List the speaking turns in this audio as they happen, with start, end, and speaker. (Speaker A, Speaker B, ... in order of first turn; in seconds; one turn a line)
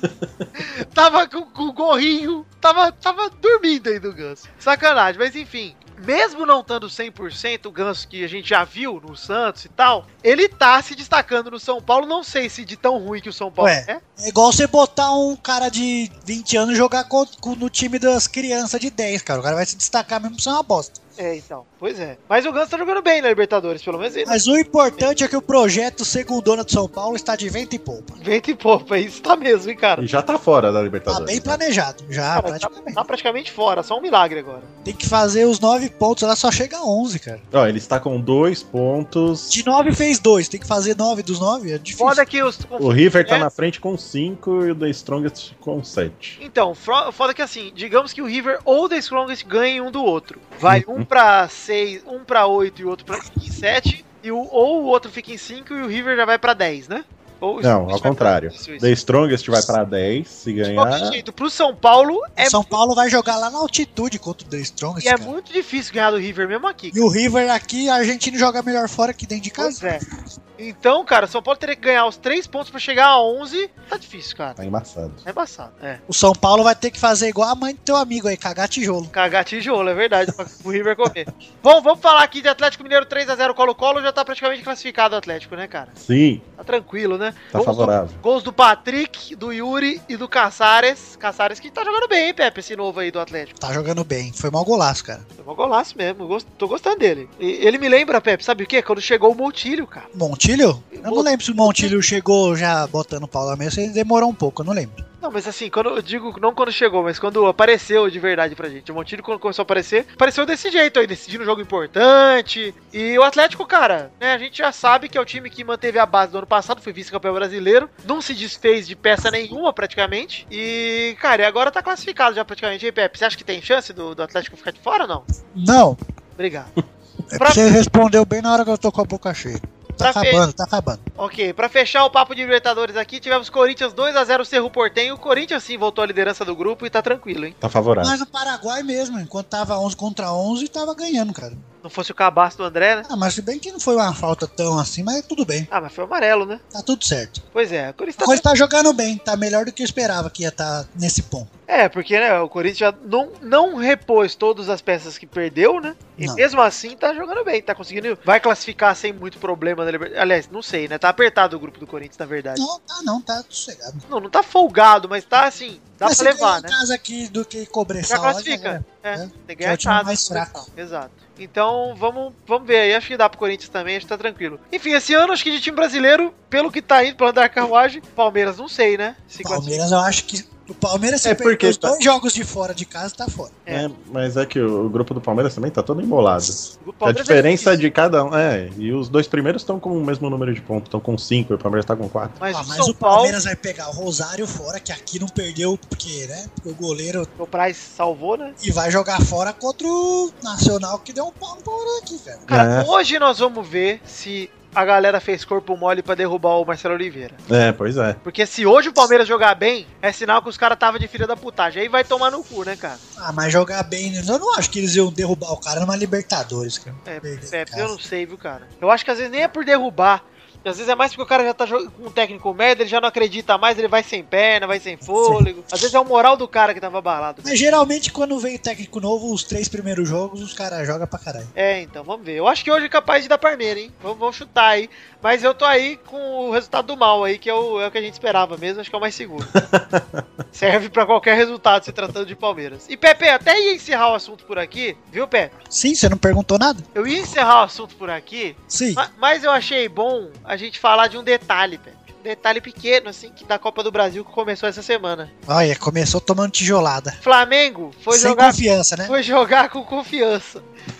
Speaker A: 0.6-14.0
Speaker B: 13.6-21.0
Speaker A: 21.2-24.4
Speaker B: 24.2-28.2
Speaker A: 28.2-30.1
Speaker C: 30.0-31.6
Speaker B: 31.1-33.0
Speaker A: 32.3-34.7
Speaker B: 34.8-37.4
Speaker C: 37.5-39.6
Speaker B: 39.5-42.2
Speaker A: 42.0-43.5
Speaker C: 42.8-46.4
Speaker A: 46.4-58.9
Speaker C: 50.7-51.1
Speaker C: 57.6-61.2
Speaker A: 60.7-62.8
Speaker B: 62.4-65.3
Speaker A: 65.0-67.0
Speaker B: 66.9-69.9
Speaker A: 69.6-70.0
Speaker A: 70.6-74.6
Speaker C: 74.6-75.2
Speaker A: 75.2-76.0
Speaker B: 76.1-79.1
Speaker A: 79.1-85.9
Speaker C: 86.0-86.4
Speaker A: 86.6-93.5
Speaker C: 87.5-88.2
Speaker B: 93.6-95.2
Speaker A: 95.4-100.1
Speaker B: 100.1-105.0
Speaker A: 100.9-102.0
Speaker A: 105.2-125.2
Speaker B: 125.5-126.0
Speaker A: 126.4-126.7
Speaker B: 127.3-131.0
Speaker A: 127.4-127.7
Speaker A: 130.0-130.4
Speaker A: 131.2-137.6
Speaker C: 137.6-138.2
Speaker B: 138.0-141.6
Speaker A: 141.8-143.1
Speaker B: 143.0-145.7
Speaker A: 145.7-146.6
Speaker B: 146.7-147.4
Speaker A: 147.5-148.4
Speaker B: 148.2-151.5
Speaker A: 151.7-162.7
Speaker B: 156.2-156.4
Speaker B: 162.5-164.0
Speaker A: 164.1-166.8
Speaker B: 166.0-170.7
Speaker A: 168.1-179.8
Speaker B: 179.4-183.6
Speaker C: 181.2-181.9
Speaker C: 183.7-192.4
Speaker A: 186.8-187.8
Speaker A: 192.4-193.4
Speaker B: 192.5-197.3
Speaker A: 197.4-198.6
Speaker B: 198.6-202.5
Speaker A: 202.5-207.4
Speaker C: 202.5-202.9
Speaker C: 207.5-208.2
Speaker A: 208.2-213.0
Speaker B: 213.2-217.9
Speaker A: 217.0-227.6
Speaker B: 225.0-225.4
Speaker B: 227.4-231.5
Speaker A: 231.5-239.5
Speaker C: 239.5-240.2
Speaker A: 240.5-245.5
Speaker B: 245.7-246.8
Speaker A: 246.9-255.3
Speaker B: 248.7-249.0
Speaker B: 255.5-257.2
Speaker A: 257.2-260.6
Speaker B: 258.1-259.1